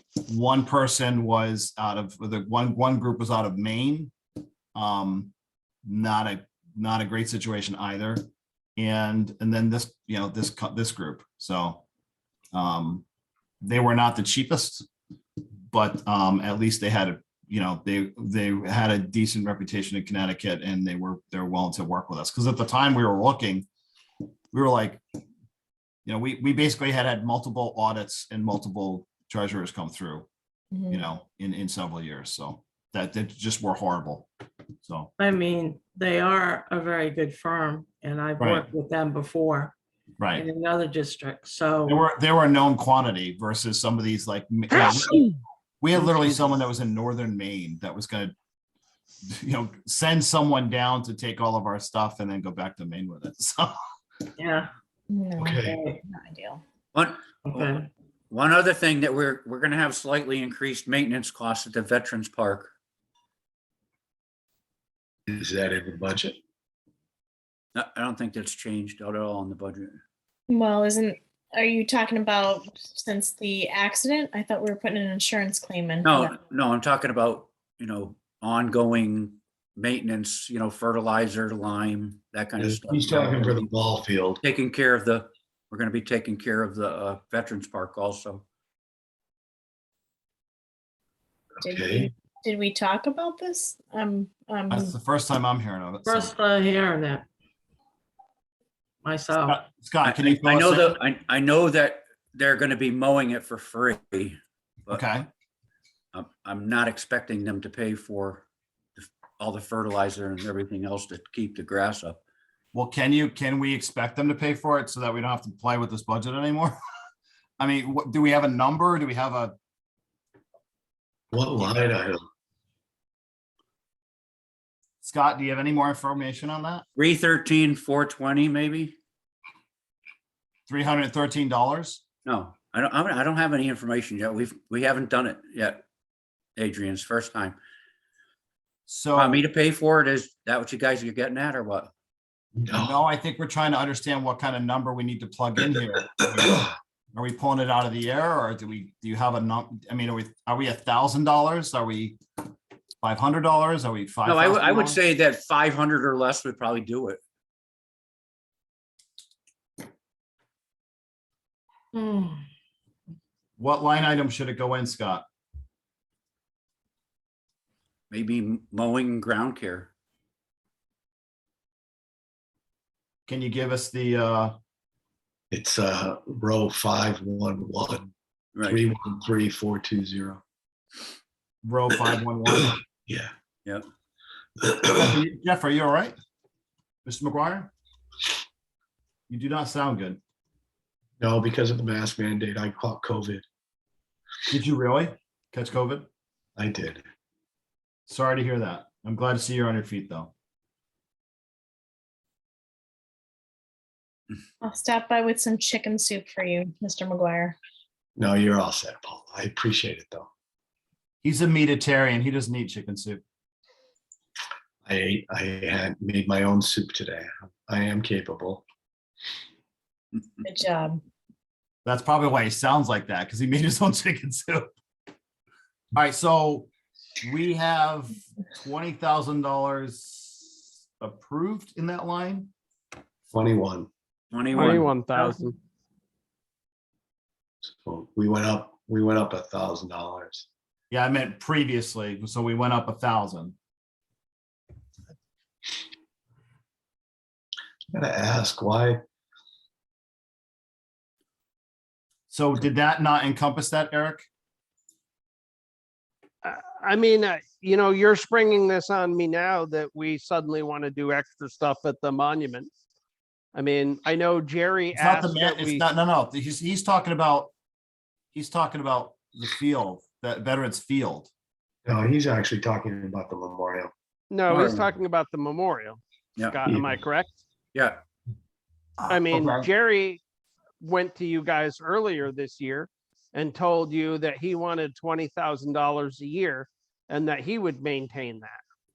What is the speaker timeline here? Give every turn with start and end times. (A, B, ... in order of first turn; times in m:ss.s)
0:00.3-0:04.1 A
0:04.8-0:05.3 A
0:05.9-0:08.3 A
0:08.8-0:11.8 A
0:12.5-0:13.0 A
0:13.6-0:14.9 A
0:15.7-0:23.7 A
0:24.5-0:25.0 A
0:26.1-0:30.3 A
0:30.7-0:31.0 B
0:30.9-0:34.3 A
0:34.8-0:35.1 A
0:35.2-0:39.8 C
0:38.4-0:38.6 A
0:40.4-0:42.0 C
0:41.9-0:45.2 A
0:45.8-0:48.3 A
0:49.3-0:53.8 A
0:54.4-0:54.7 C
0:55.1-0:56.6 B
0:55.4-0:55.8 D
0:55.6-0:56.0 C
0:56.9-0:57.8 E
0:57.5-0:57.9 C
0:58.3-1:02.7 E
1:05.3-1:06.4 D
1:07.8-1:10.0 E
1:10.5-1:16.4 B
1:16.0-1:23.6 E
1:22.6-1:24.4 D
1:24.4-1:28.4 E
1:31.6-1:34.9 B
1:31.6-1:32.1 D
1:34.7-1:36.3 A
1:36.1-1:37.3 C
1:39.0-1:39.6 C
1:39.5-1:41.0 A
1:40.0-1:45.0 E
1:44.9-1:45.3 A
1:46.1-1:48.4 E
1:49.0-1:52.2 E
1:52.7-1:56.8 A
1:57.6-1:59.5 A
2:01.3-2:02.2 D
2:05.0-2:06.8 A
2:07.0-2:09.0 E
2:10.7-2:12.0 A
2:12.2-2:15.8 E
2:16.6-2:17.6 E
2:18.9-2:19.4 A
2:19.1-2:21.9 E
2:22.6-2:23.0 D
2:22.7-2:32.2 A
2:33.0-2:35.0 A
2:34.2-2:37.2 E
2:41.9-2:42.4 C
2:43.6-2:45.2 A
2:48.1-2:49.9 E
2:53.3-2:54.6 A
2:55.5-2:58.1 D
2:58.6-3:00.4 D
3:01.6-3:02.8 A
3:03.1-3:03.3 D
3:04.6-3:05.1 D
3:04.9-3:06.2 A
3:07.1-3:07.7 A
3:09.3-3:10.2 A
3:11.2-3:13.4 D
3:14.5-3:16.1 A
3:16.6-3:17.0 D
3:18.1-3:20.3 A
3:24.6-3:27.6 B
3:28.2-3:30.3 D
3:31.2-3:33.2 A
3:34.8-3:38.6 D
3:40.4-3:41.0 B
3:41.8-3:44.7 A
3:45.9-3:46.7 A
3:47.2-3:52.5 A
3:53.3-3:53.9 D
3:54.3-3:55.1 E
3:54.5-3:55.6 F
3:57.6-4:00.5 D
4:00.9-4:03.6 A
4:07.9-4:09.0 D
4:12.3-4:14.3 A
4:16.4-4:22.7 F
4:23.5-4:25.8 F
4:24.9-4:27.5 A
4:28.3-4:31.3 A
4:31.9-4:33.9 D
4:34.3-4:37.3 F
4:34.5-4:34.9 E
4:36.6-4:36.9 D
4:37.8-4:38.0 E
4:39.0-4:39.7 A
4:39.1-4:40.2 F
4:40.8-4:48.6 F